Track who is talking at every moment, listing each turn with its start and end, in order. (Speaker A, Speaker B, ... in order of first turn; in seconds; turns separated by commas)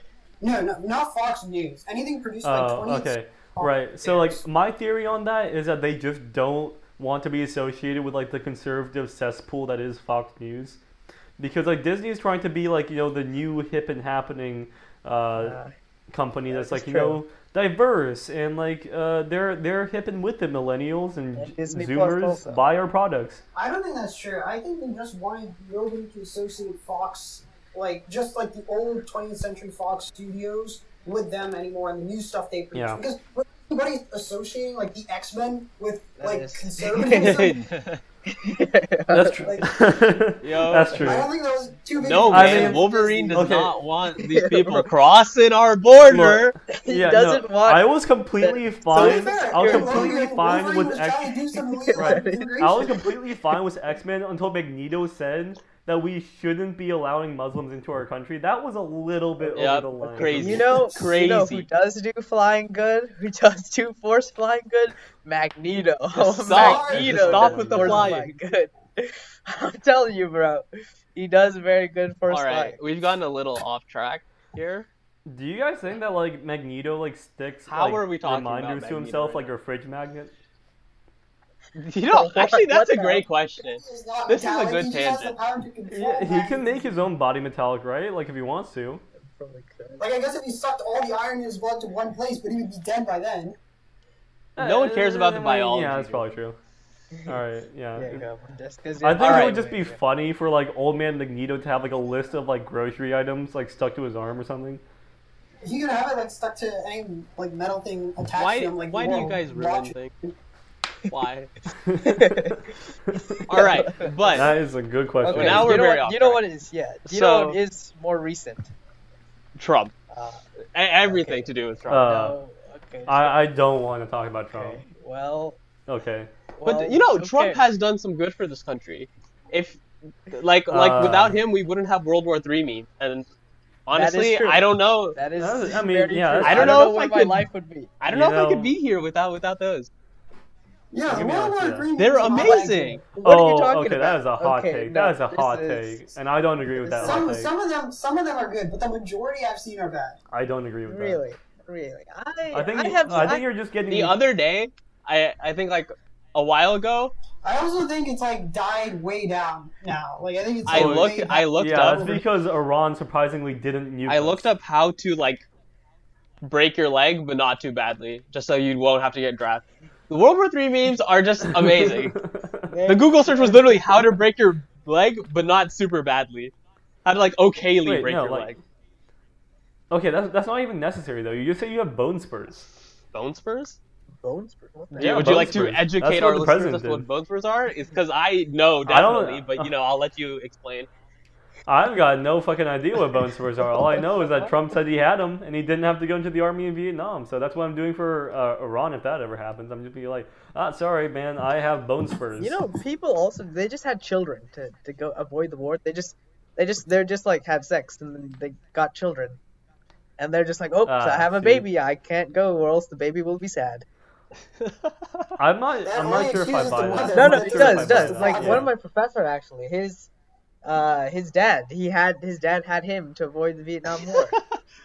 Speaker A: 0.4-4.4, Speaker B: 2.4-10.8, Speaker B: 11.4-15.6, Speaker C: 15.4-15.7, Speaker B: 16.1-23.4, Speaker C: 16.5-17.2, Speaker C: 21.4-22.6, Speaker A: 23.6-37.6, Speaker B: 32.7-33.0, Speaker C: 36.2-37.5, Speaker D: 37.1-38.0, Speaker C: 38.3-39.4, Speaker B: 39.1-41.3, Speaker A: 39.4-39.7, Speaker D: 40.4-41.2, Speaker A: 41.0-43.5, Speaker D: 42.0-46.5, Speaker B: 42.3-43.7, Speaker C: 44.2-44.9, Speaker B: 46.1-51.4, Speaker C: 46.7-50.2, Speaker A: 48.9-53.0, Speaker C: 51.7-52.5, Speaker B: 52.0-60.8, Speaker D: 59.5-61.7, Speaker C: 60.3-72.8, Speaker D: 66.2-68.3, Speaker A: 66.5-67.3, Speaker B: 66.9-68.3, Speaker D: 72.3-74.9, Speaker B: 75.3-80.3, Speaker D: 77.7-79.5, Speaker D: 81.8-85.3, Speaker C: 82.1-83.3, Speaker A: 83.6-86.9, Speaker B: 85.9-89.0, Speaker C: 89.2-90.1, Speaker A: 90.0-93.6, Speaker B: 94.6-96.6, Speaker D: 94.6-96.4, Speaker B: 97.3-98.3, Speaker C: 98.0-100.0, Speaker B: 99.0-104.8, Speaker D: 99.2-99.5, Speaker A: 105.6-110.3, Speaker D: 108.3-110.1, Speaker D: 111.1-111.5, Speaker B: 111.9-112.6, Speaker C: 112.0-114.5, Speaker B: 113.1-113.4, Speaker D: 113.5-114.5, Speaker B: 114.3-115.8, Speaker C: 115.2-118.7, Speaker D: 115.3-116.4, Speaker D: 117.1-117.6, Speaker D: 119.6-119.9, Speaker C: 120.1-120.4, Speaker D: 120.8-122.3, Speaker C: 121.0-123.4, Speaker B: 121.9-122.4, Speaker B: 123.1-124.8, Speaker C: 124.5-125.6, Speaker B: 125.9-126.3, Speaker C: 126.6-127.7, Speaker D: 126.7-133.3, Speaker B: 130.7-131.4, Speaker D: 133.9-135.2, Speaker C: 133.9-137.9, Speaker B: 135.4-136.9, Speaker D: 136.4-137.4, Speaker D: 138.0-139.9, Speaker B: 138.1-138.7, Speaker A: 140.9-143.0, Speaker B: 141.1-141.9, Speaker D: 142.0-143.0, Speaker C: 143.1-146.1, Speaker B: 143.2-147.5, Speaker C: 146.7-147.3, Speaker A: 147.0-150.2, Speaker B: 150.3-151.2, Speaker C: 150.9-153.4, Speaker B: 152.5-154.2, Speaker D: 153.9-157.1, Speaker A: 157.4-161.9, Speaker D: 160.7-162.2, Speaker B: 160.7-164.5, Speaker D: 164.1-165.5, Speaker D: 166.4-172.2, Speaker B: 171.6-172.7, Speaker C: 172.7-174.1, Speaker D: 172.9-176.5, Speaker D: 177.1-178.6, Speaker B: 177.8-178.6, Speaker B: 179.9-182.7, Speaker D: 183.1-183.8, Speaker C: 184.2-185.4, Speaker D: 184.9-190.9, Speaker B: 185.0-187.1, Speaker B: 188.9-189.7, Speaker B: 191.7-202.6, Speaker C: 194.2-194.5, Speaker C: 202.4-209.4, Speaker C: 210.2-213.9, Speaker B: 210.9-211.7, Speaker D: 214.6-215.3, Speaker B: 215.4-218.7, Speaker A: 215.8-218.7, Speaker C: 217.1-220.1, Speaker C: 220.6-224.3, Speaker D: 224.2-224.6